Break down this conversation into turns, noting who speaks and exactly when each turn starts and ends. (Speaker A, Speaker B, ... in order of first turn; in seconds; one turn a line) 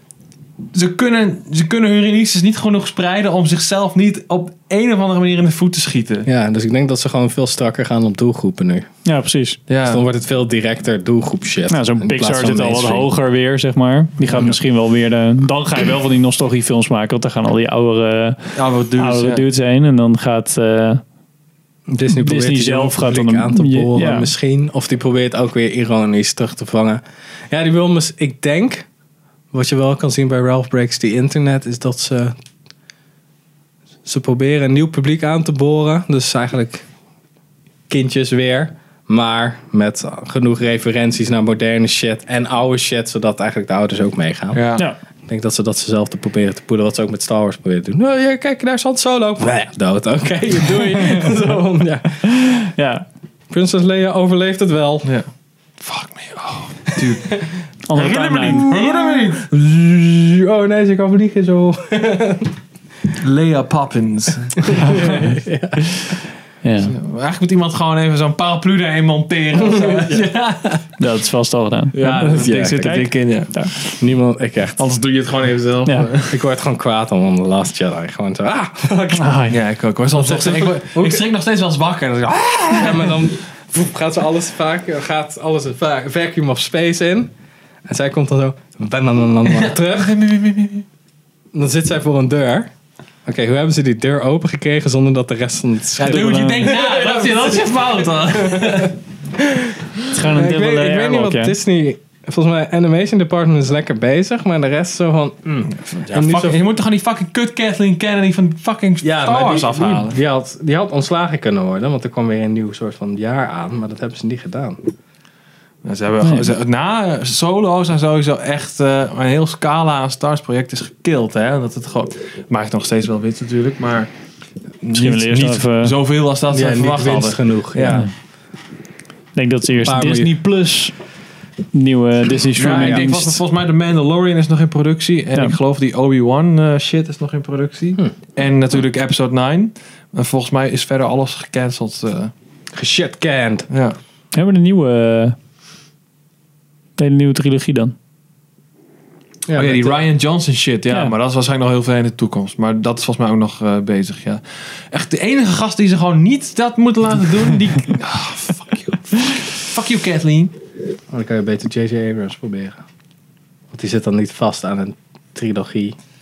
Speaker A: 0.7-6.3
Speaker B: 6.2-8.9
Speaker C: 9.0-9.6
Speaker A: 9.7-10.0
Speaker B: 9.8-13.1
Speaker C: 11.7-21.0
Speaker B: 14.3-14.6
Speaker A: 18.5-19.4
Speaker B: 21.9-28.9
Speaker C: 22.1-24.3
Speaker B: 29.5-32.3
Speaker B: 34.0-36.8
Speaker B: 37.9-44.6
Speaker A: 44.5-44.8
Speaker B: 45.3-52.5
Speaker C: 52.4-53.0
Speaker B: 53.5-55.1
Speaker A: 55.8-59.4
Speaker B: 57.0-57.5
Speaker C: 57.9-58.7
Speaker B: 58.5-62.5
Speaker A: 63.1-65.0
Speaker B: 64.7-66.2
Speaker C: 66.6-66.9
Speaker A: 66.8-71.0
Speaker B: 69.7-70.2
Speaker C: 71.0-73.7
Speaker A: 71.9-74.0
Speaker B: 72.2-73.1
Speaker B: 74.0-74.9
Speaker A: 74.8-76.5
Speaker C: 75.8-76.1
Speaker B: 76.3-79.4
Speaker C: 79.2-79.6
Speaker A: 79.5-83.3
Speaker B: 80.1-81.2
Speaker B: 82.7-87.3
Speaker B: 87.8-90.2
Speaker A: 89.5-90.8
Speaker B: 91.5-92.7
Speaker B: 93.2-106.6
Speaker A: 96.0-99.0
Speaker C: 96.0-96.7
Speaker C: 100.1-101.5
Speaker A: 106.0-110.2
Speaker B: 109.0-114.8
Speaker A: 115.8-124.1
Speaker C: 116.2-116.5
Speaker A: 124.8-128.0
Speaker C: 124.9-126.0
Speaker B: 126.5-128.1
Speaker C: 129.3-131.0
Speaker B: 129.8-130.3
Speaker C: 131.7-133.4
Speaker A: 132.5-142.3
Speaker B: 132.6-133.1
Speaker B: 142.7-143.7
Speaker A: 143.7-144.0
Speaker C: 144.3-145.3
Speaker C: 147.0-147.9
Speaker B: 149.4-150.0
Speaker A: 149.6-160.5
Speaker C: 150.9-151.1
Speaker B: 161.1-162.8
Speaker B: 163.7-165.9